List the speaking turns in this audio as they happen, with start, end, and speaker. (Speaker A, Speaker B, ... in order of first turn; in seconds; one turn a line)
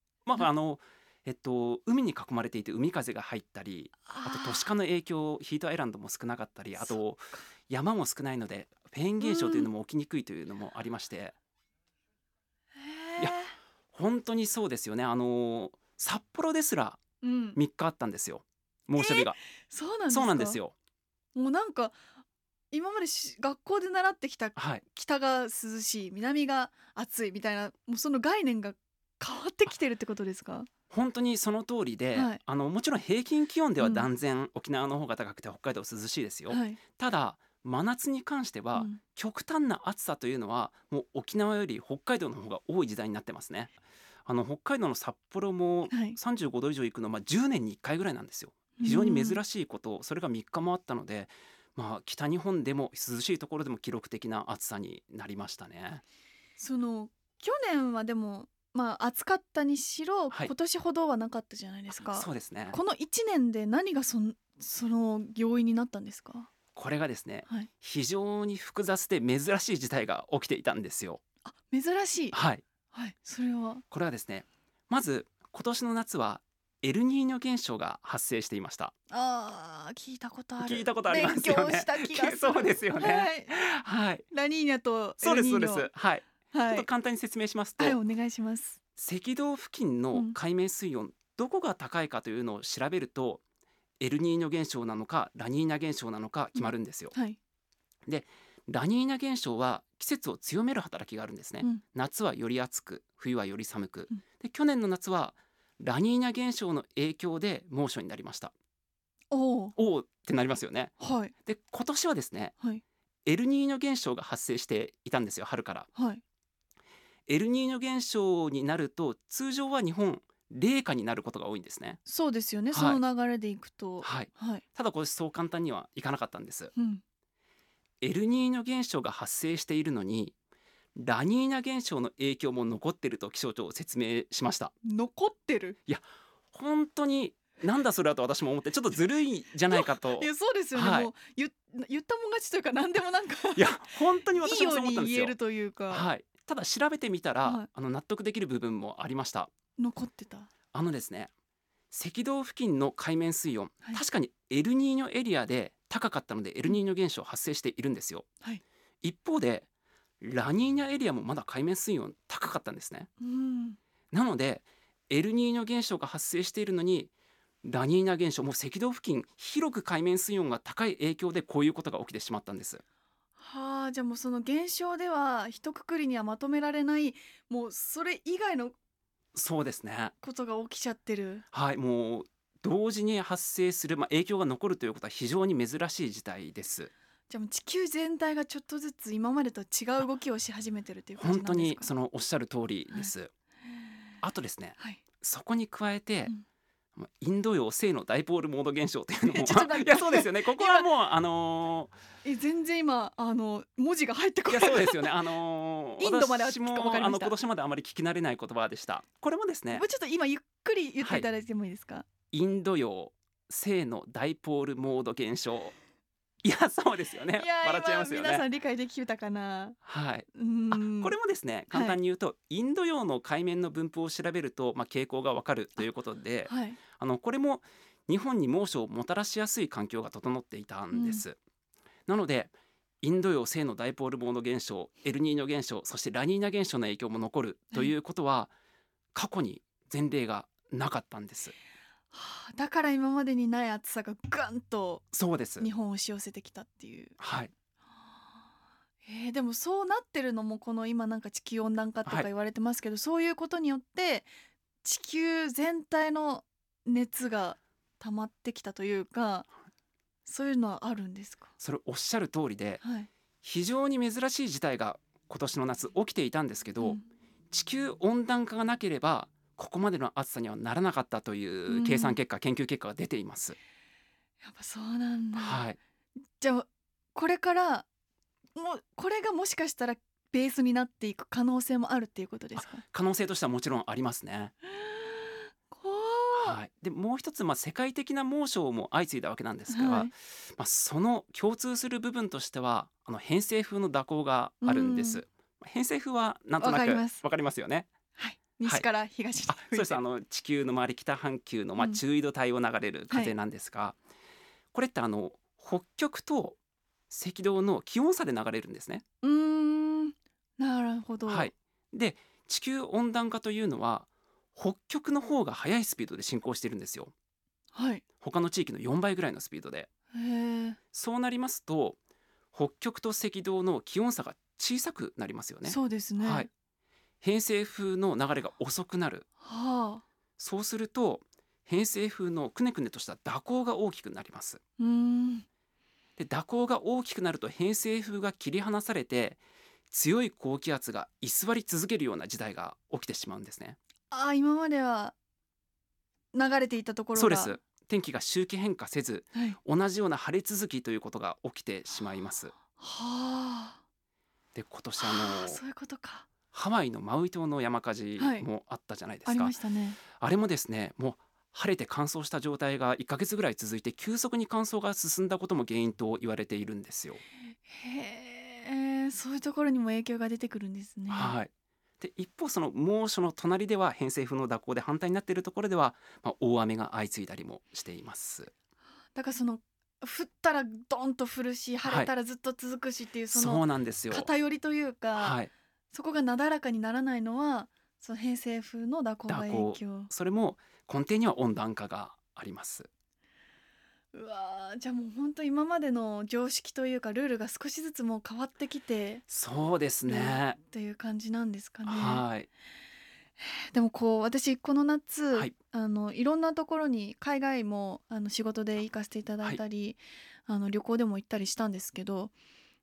Speaker A: 0.2-11.3
Speaker B: 4.0-4.7
Speaker B: 6.8-7.4
Speaker B: 9.2-9.7
Speaker B: 12.8-13.5
Speaker A: 13.9-17.0
Speaker B: 17.2-17.6
Speaker A: 17.6-19.4
Speaker B: 19.0-20.6
Speaker A: 20.1-20.7
Speaker B: 21.3-22.0
Speaker B: 22.7-30.7
Speaker A: 24.6-24.8
Speaker A: 30.9-43.7
Speaker B: 32.1-32.4
Speaker B: 33.8-34.1
Speaker B: 36.5-36.8
Speaker B: 38.7-39.0
Speaker A: 44.2-56.0
Speaker B: 45.9-46.2
Speaker B: 48.8-49.4
Speaker B: 56.6-66.5
Speaker A: 62.0-62.8
Speaker A: 66.7-71.2
Speaker B: 71.4-72.4
Speaker A: 72.3-72.6
Speaker B: 72.9-73.8
Speaker A: 73.9-78.9
Speaker B: 79.1-83.5
Speaker A: 80.6-84.2
Speaker B: 84.3-85.9
Speaker A: 85.2-88.0
Speaker B: 86.5-86.9
Speaker B: 87.8-88.8
Speaker A: 89.0-93.4
Speaker A: 94.0-97.1
Speaker B: 96.5-97.4
Speaker A: 98.1-108.5
Speaker B: 109.3-109.7
Speaker A: 109.8-112.5
Speaker B: 111.0-111.3
Speaker A: 113.2-115.9
Speaker B: 115.9-116.2
Speaker A: 117.3-122.0
Speaker B: 122.0-124.6
Speaker A: 122.7-123.0
Speaker A: 124.0-126.7
Speaker B: 126.8-127.0
Speaker A: 128.0-130.3
Speaker A: 130.9-134.7
Speaker B: 134.8-135.8
Speaker A: 135.9-141.1
Speaker B: 139.7-143.7
Speaker A: 143.6-145.3
Speaker B: 144.3-146.1
Speaker A: 145.9-149.5
Speaker B: 149.8-150.5
Speaker A: 150.7-151.3
Speaker A: 151.9-158.3
Speaker A: 159.0-159.7
Speaker A: 160.2-163.1
Speaker B: 163.2-163.8
Speaker A: 164.1-167.1
Speaker A: 167.6-172.8
Speaker B: 173.4-178.7
Speaker A: 179.3-180.1
Speaker B: 180.2-181.4
Speaker A: 181.5-186.9
Speaker B: 187.3-191.9
Speaker A: 191.2-193.3
Speaker A: 194.2-196.3
Speaker A: 196.9-201.9
Speaker B: 199.3-200.9
Speaker B: 202.2-205.1
Speaker A: 204.5-209.8
Speaker B: 206.0-207.3
Speaker B: 209.7-212.1
Speaker A: 212.3-215.7
Speaker A: 216.4-218.4
Speaker B: 217.3-219.8
Speaker A: 219.8-231.3
Speaker B: 220.3-221.1
Speaker B: 221.7-222.0
Speaker B: 226.5-226.8
Speaker B: 230.9-231.2
Speaker A: 232.1-238.5
Speaker A: 239.1-241.5
Speaker B: 242.1-245.1
Speaker A: 245.1-245.7
Speaker B: 245.6-247.2
Speaker A: 247.2-247.5
Speaker B: 249.0-254.3
Speaker B: 254.8-259.5
Speaker B: 260.2-261.5
Speaker A: 261.6-262.8
Speaker B: 262.8-263.1
Speaker A: 263.4-267.0
Speaker A: 267.5-273.6
Speaker B: 271.7-272.2
Speaker B: 274.4-275.6
Speaker A: 275.4-275.8
Speaker B: 276.4-277.9
Speaker B: 278.6-282.8
Speaker A: 282.6-284.5
Speaker B: 284.7-286.6
Speaker A: 286.4-297.9
Speaker B: 289.7-290.1
Speaker B: 294.6-295.2
Speaker B: 296.6-297.2
Speaker B: 298.2-300.0
Speaker A: 299.5-303.9
Speaker A: 304.7-306.6
Speaker A: 307.1-309.0
Speaker B: 309.2-311.5
Speaker A: 311.3-317.1
Speaker B: 317.7-318.0
Speaker A: 318.2-319.9
Speaker B: 320.1-320.8
Speaker A: 320.9-322.0
Speaker A: 322.5-326.5
Speaker B: 325.6-326.5
Speaker A: 327.2-329.2
Speaker B: 329.4-330.0
Speaker A: 330.4-334.6
Speaker B: 334.8-335.4
Speaker A: 336.2-339.4
Speaker A: 339.9-343.8
Speaker B: 344.1-345.1
Speaker B: 346.3-347.5
Speaker A: 347.1-352.5
Speaker B: 352.7-353.8
Speaker A: 354.5-355.6
Speaker B: 355.0-356.3
Speaker A: 356.5-359.5
Speaker B: 358.2-358.4
Speaker B: 359.2-360.0
Speaker A: 360.1-367.2
Speaker B: 367.6-371.4
Speaker A: 371.1-378.5
Speaker B: 379.1-385.4
Speaker A: 381.8-382.1
Speaker A: 383.3-384.3
Speaker A: 385.1-385.5
Speaker B: 385.9-390.1
Speaker A: 389.3-392.9
Speaker B: 394.1-399.2
Speaker A: 399.3-400.6
Speaker B: 400.1-402.2
Speaker A: 401.9-402.5
Speaker B: 403.4-412.3